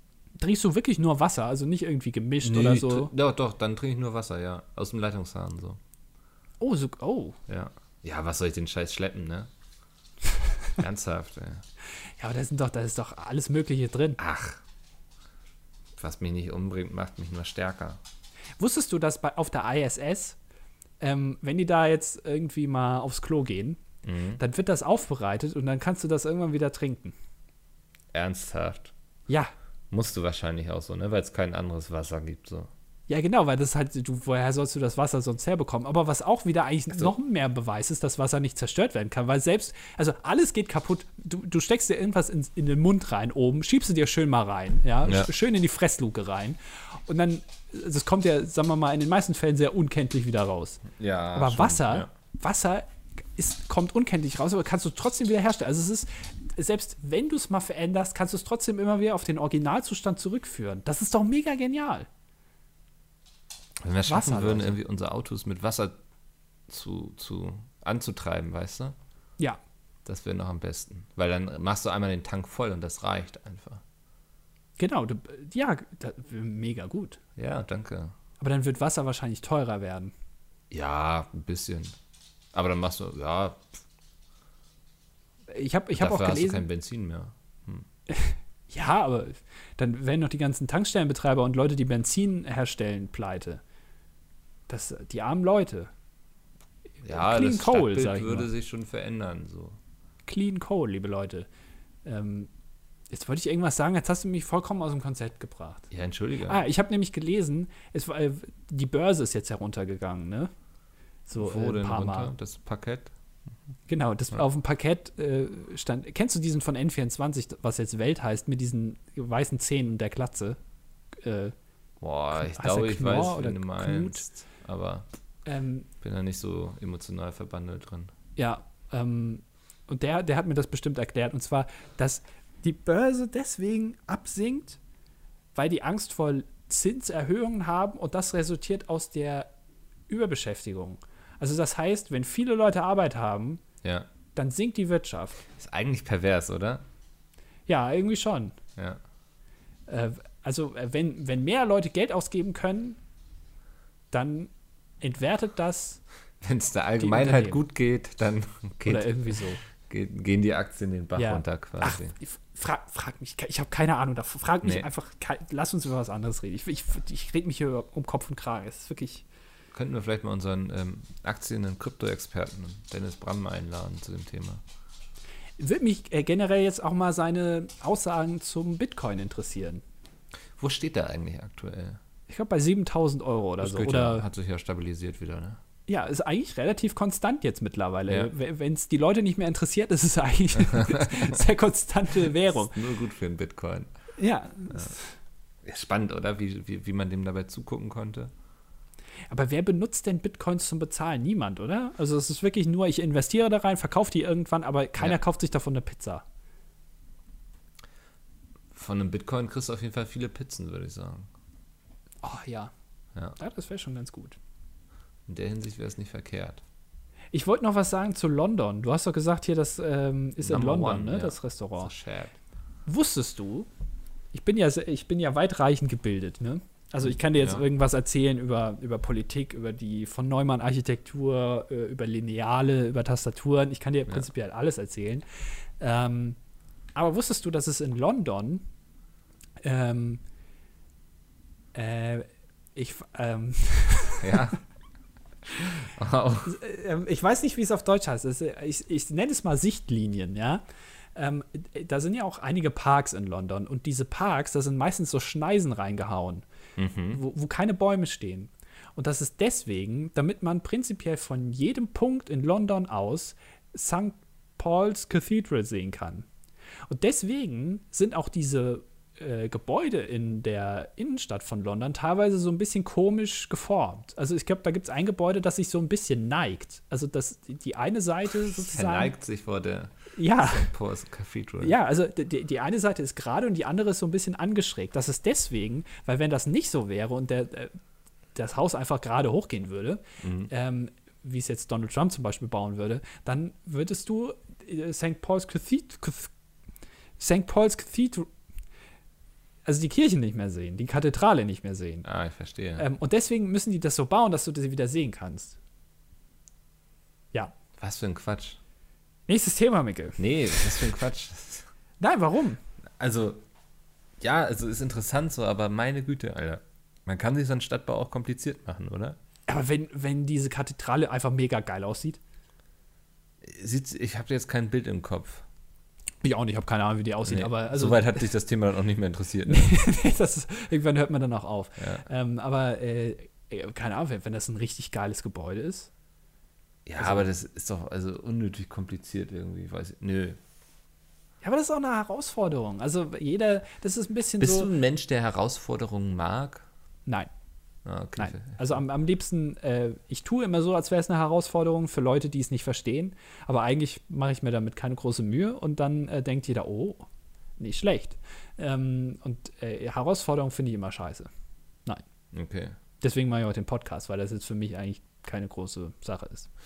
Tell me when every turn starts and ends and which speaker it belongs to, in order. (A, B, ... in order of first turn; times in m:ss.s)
0:00.4-0:03.1 A
0:02.4-0:05.8 B
0:06.6-0:07.4 A
0:07.5-0:09.5 B
0:10.8-0:11.6 B
0:12.2-0:14.2 A
0:14.2-0:14.6 B
0:16.0-0:18.0 B
0:18.6-0:20.4 A
0:21.0-0:23.8 A
0:24.0-0:24.4 B
0:24.4-0:27.1 A
0:28.1-0:28.9 B
0:29.9-0:32.7 B
0:33.1-0:52.8 A
0:50.9-0:52.1 B
0:53.4-1:02.1 A
1:03.8-1:05.9 B
1:04.1-1:04.8 A
1:06.7-1:09.0 B
1:10.0-1:13.8 B
1:14.8-1:17.2 A
1:17.4-1:18.1 B
1:18.4-1:20.1 A
1:20.7-1:21.9 B
1:22.5-1:23.7 B
1:25.5-1:26.6 A
1:25.9-1:27.9 B
1:28.1-1:33.6 A
1:34.7-1:35.9 A
1:37.0-1:39.8 B
1:37.1-1:38.5 A
1:40.2-1:41.5 A
1:42.0-1:42.5 A
1:43.1-1:45.9 A
1:45.9-1:46.6 B
1:46.4-1:50.5 A
1:51.3-1:52.3 A
1:51.4-1:53.1 B
1:53.9-2:00.6 A
2:01.2-2:01.5 A
2:02.0-2:05.0 B
2:02.3-2:04.3 A
2:05.4-2:05.9 A
2:06.0-2:08.1 B
2:08.4-2:14.8 A
2:15.5-2:19.5 A
2:20.1-2:23.6 A
2:23.8-2:24.1 B
2:24.3-2:25.4 A
2:25.5-2:26.8 B
2:27.7-2:28.6 A
2:29.9-2:33.0 A
2:34.1-2:36.0 A
2:36.4-2:42.1 B
2:37.0-2:37.6 A
2:38.8-2:39.6 A
2:41.2-2:49.2 A
2:49.7-2:54.6 B
2:55.6-2:59.8 A
3:00.6-3:02.0 B
3:02.3-3:04.2 A
3:03.6-3:05.6 B
3:05.9-3:12.8 A
3:10.7-3:11.3 B
3:12.5-3:13.9 B
3:14.2-3:15.1 A
3:15.6-3:18.3 B
3:19.3-3:26.2 A
3:28.7-3:31.3 B
3:32.2-3:32.7 A
3:33.4-3:34.4 A
3:35.3-3:36.6 B
3:37.3-3:41.9 A
3:40.4-3:42.3 B
3:42.8-3:43.7 A
3:44.3-3:55.2 A
3:47.4-3:47.6 B
3:55.8-3:56.4 A
3:56.9-3:58.6 A
3:59.6-4:00.2 A
4:01.7-4:04.5 A
4:04.2-4:04.6 B
4:05.6-4:06.6 B
4:06.4-4:10.6 A
4:11.2-4:16.4 A
4:16.8-4:17.2 B
4:17.1-4:26.2 A
4:26.9-4:39.2 A
4:38.5-4:41.7 B
4:40.1-4:40.7 A
4:41.6-4:47.7 A
4:48.3-4:56.3 A
4:50.2-4:50.5 B
4:57.2-4:58.3 A
4:59.6-5:02.0 A
5:02.0-5:02.8 B
5:02.8-5:05.6 A
5:07.8-5:08.6 B
5:09.3-5:10.2 A
5:10.2-5:11.7 B
5:12.0-5:12.6 A
5:13.0-5:13.4 B
5:14.2-5:19.2 B
5:19.5-5:22.2 A
5:23.4-5:25.4 B
5:26.2-5:28.2 A
5:27.2-5:29.7 B
5:29.4-5:35.9 A
5:31.8-5:32.0 B
5:36.8-5:40.4 B
5:37.0-5:37.2 A
5:41.4-5:44.7 A
5:44.4-5:46.6 B
5:47.8-5:48.8 B
5:48.2-5:57.0 A
5:57.6-6:01.3 A
6:02.3-6:02.8 B
6:03.0-6:06.5 A